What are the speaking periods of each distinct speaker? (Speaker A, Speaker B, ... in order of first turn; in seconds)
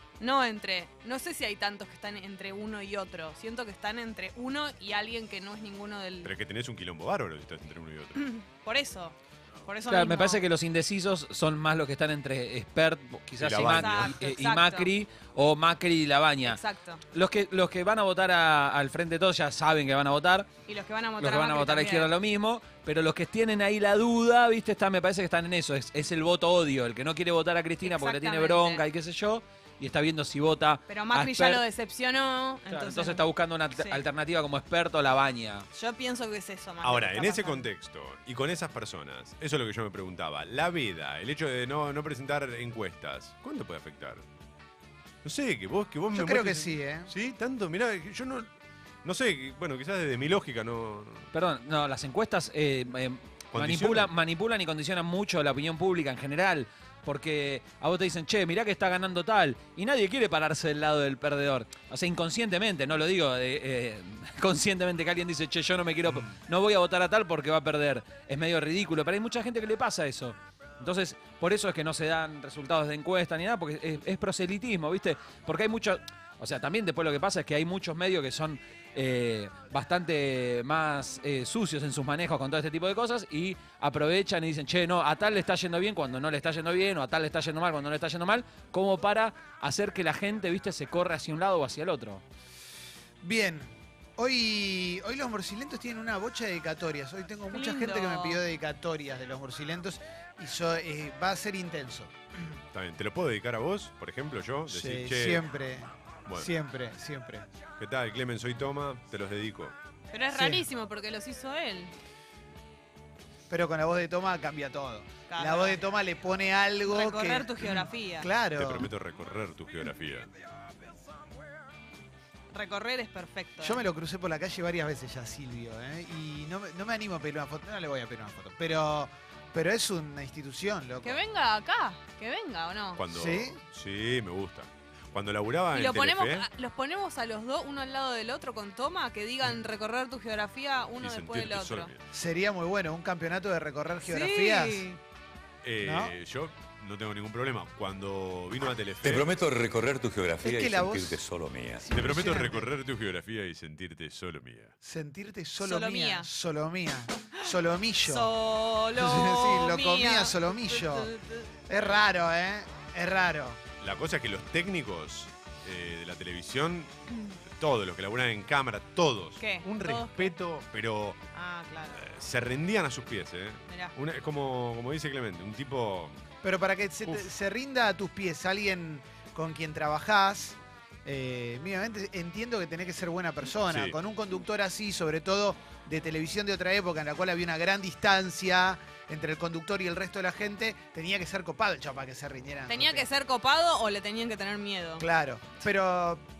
Speaker A: 0.2-6.3, 8.2-10.4, 13.7-14.9, 16.4-17.0, 20.7-22.1, 27.8-28.8, 30.9-33.2, 33.8-34.0, 35.7-37.7, 97.5-98.4, 110.1-111.9, 115.3-115.8, 116.8-118.3, 122.5-123.8, 131.0-133.0, 135.7-141.9, 144.1-145.0, 155.6-156.3, 158.1-161.5, 169.4-170.3, 171.3-172.0, 173.7-173.9, 192.7-195.1
Speaker B: 6.2-8.3, 13.4-14.2, 36.8-44.2, 45.2-48.5, 49.0-51.3, 53.5-54.1, 66.1-66.4, 102.7-105.5, 107.8-109.8, 118.6-120.3, 133.0-136.5, 141.0-142.0, 145.6-149.3, 151.9-154.7, 163.8-166.9, 167.6-171.2, 171.9-176.2, 183.7-184.0
Speaker C: 9.9-16.6, 17.1-20.5, 21.2-31.6, 32.7-35.7, 51.3-92.2
Speaker D: 46.1-47.1, 93.2-102.6, 104.7-107.5, 110.3-110.7, 113.5-118.9, 123.6-131.2, 133.1-133.6, 142.1-144.9, 145.8-146.2, 150.4-151.2, 151.8-152.7, 154.8-158.3, 158.9-161.1, 161.7-163.6, 176.4-193.1, 195.0-196.2
Speaker E: 149.1-151.8